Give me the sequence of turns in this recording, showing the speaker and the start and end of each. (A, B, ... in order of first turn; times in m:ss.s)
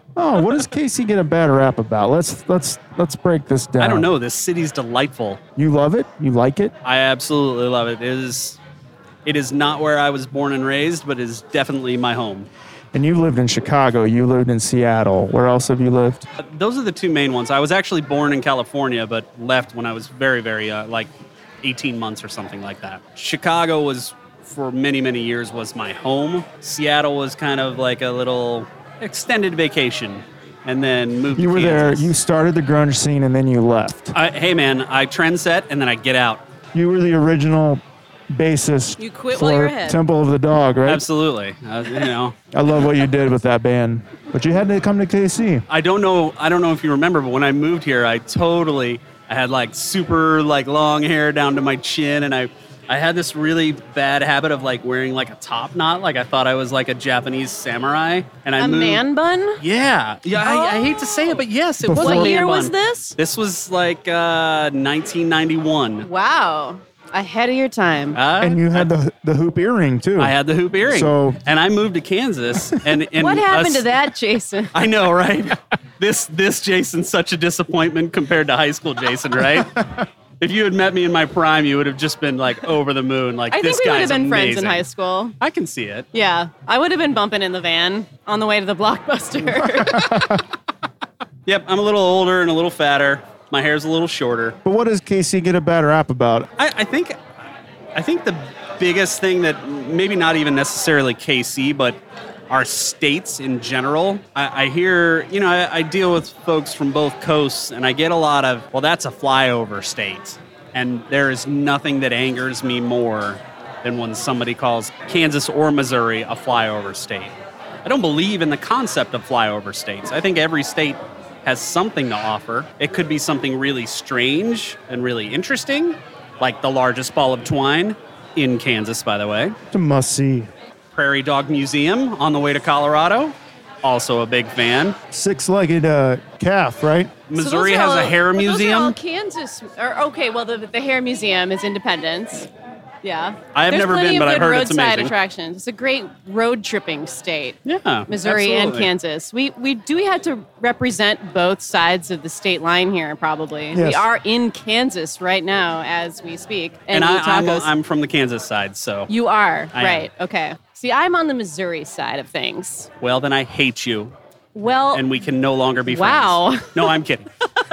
0:00.2-0:04.1 A
0:03.8-0:05.4 B
0:05.6-0:06.7 A
0:06.8-0:08.6 B
0:09.2-0:12.5 B
0:12.9-0:16.3 A
0:16.4-0:21.1 B
0:21.6-0:32.1 B
0:31.4-0:34.1 A
0:34.1-0:36.4 B
0:36.7-0:41.0 A
0:39.0-0:40.0 C
0:40.8-0:42.4 B
0:42.5-0:45.6 A
0:45.7-0:59.0 B
0:58.6-0:59.6 C
0:59.6-1:06.1 B
1:00.4-1:01.4 C
1:01.8-1:02.3 A
1:01.9-1:03.2 C
1:06.0-1:08.2 C
1:08.1-1:08.9 B
1:08.4-1:10.3 A
1:10.2-1:13.9 B
1:10.9-1:11.4 A
1:13.2-1:14.8 C
1:14.7-1:19.9 B
1:20.4-1:24.8 B
1:23.5-1:25.4 C
1:25.4-1:26.1 B
1:26.1-1:30.4 C
1:29.7-1:30.4 A
1:31.4-1:34.6 B
1:34.6-1:36.5 A
1:36.6-1:37.2 B
1:37.9-1:42.0 B
1:42.5-1:57.3 B
1:57.8-2:09.6 B
2:09.7-2:10.5 A
2:10.9-2:15.0 B
2:15.1-2:17.1 A
2:17.3-2:18.9 B
2:17.3-2:22.5 C
2:23.0-2:37.7 C
2:23.5-2:25.1 B
2:27.6-2:28.9 B
2:33.7-2:34.0 A
2:36.9-2:39.1 B
2:39.1-2:42.9 C
2:39.7-2:40.0 B
2:43.0-2:44.1 B
2:44.5-2:45.1 C
2:44.9-2:47.3 B
2:45.9-2:46.9 C